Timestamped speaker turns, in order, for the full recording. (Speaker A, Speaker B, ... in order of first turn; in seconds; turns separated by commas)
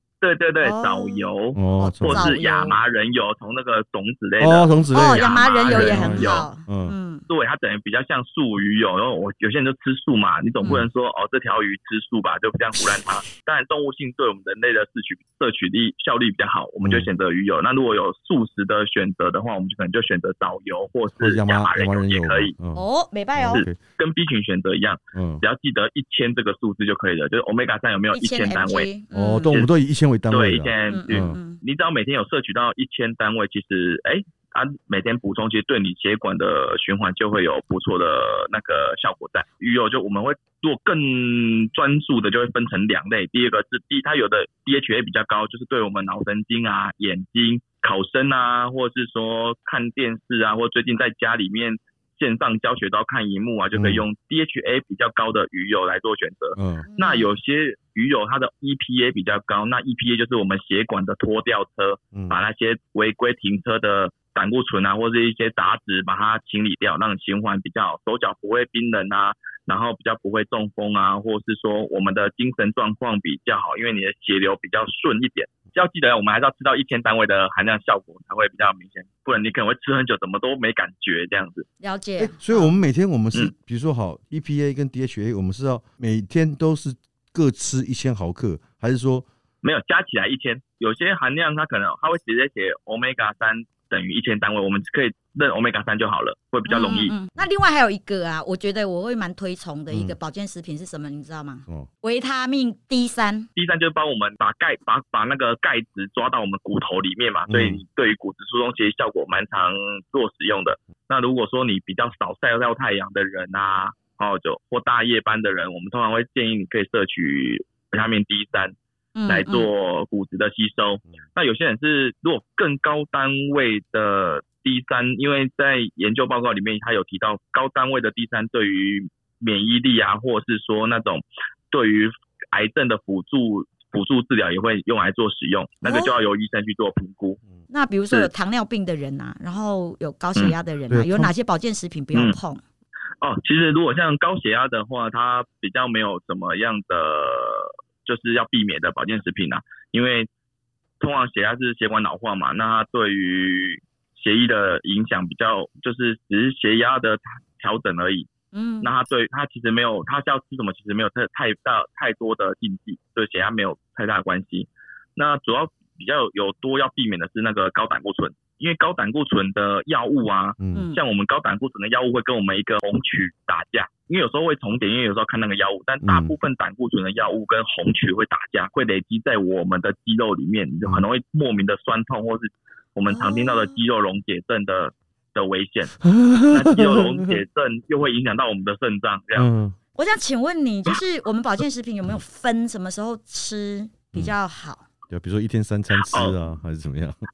Speaker A: 0.2-6.5, Speaker B: 0.6-2.8, Speaker C: 1.5-2.3, Speaker C: 4.4-6.9, Speaker B: 4.9-7.2, Speaker A: 7.3-22.5, Speaker C: 16.8-17.1, Speaker C: 21.2-23.8, Speaker B: 22.7-23.6, Speaker A: 23.5-28.9, Speaker C: 25.1-25.4, Speaker B: 28.1-29.6, Speaker C: 29.1-31.4, Speaker A: 30.3-81.7, Speaker B: 30.9-31.6, Speaker C: 53.7-54.0, Speaker C: 56.5-56.9, Speaker B: 56.9-57.3, Speaker B: 81.8-82.8, Speaker C: 82.2-89.3, Speaker A: 89.6-97.1, Speaker B: 96.7-103.5, Speaker C: 99.9-100.2, Speaker A: 103.5-118.7, Speaker C: 107.5-107.8, Speaker B: 119.2-119.7, Speaker A: 119.2-137.4, Speaker B: 135.8-136.1, Speaker B: 137.7-142.6, Speaker C: 140.9-141.3, Speaker A: 142.1-142.4, Speaker A: 143.2-150.3, Speaker A: 151.0-158.3, Speaker B: 158.5-158.9, Speaker A: 158.8-186.0, Speaker C: 170.6-170.9, Speaker B: 170.7-171.0, Speaker C: 176.0-176.3, Speaker B: 183.1-183.8, Speaker C: 186.0-187.3, Speaker A: 186.5-189.5, Speaker C: 189.3-189.8, Speaker B: 189.9-194.8, Speaker C: 195.1-197.2, Speaker A: 195.9-196.4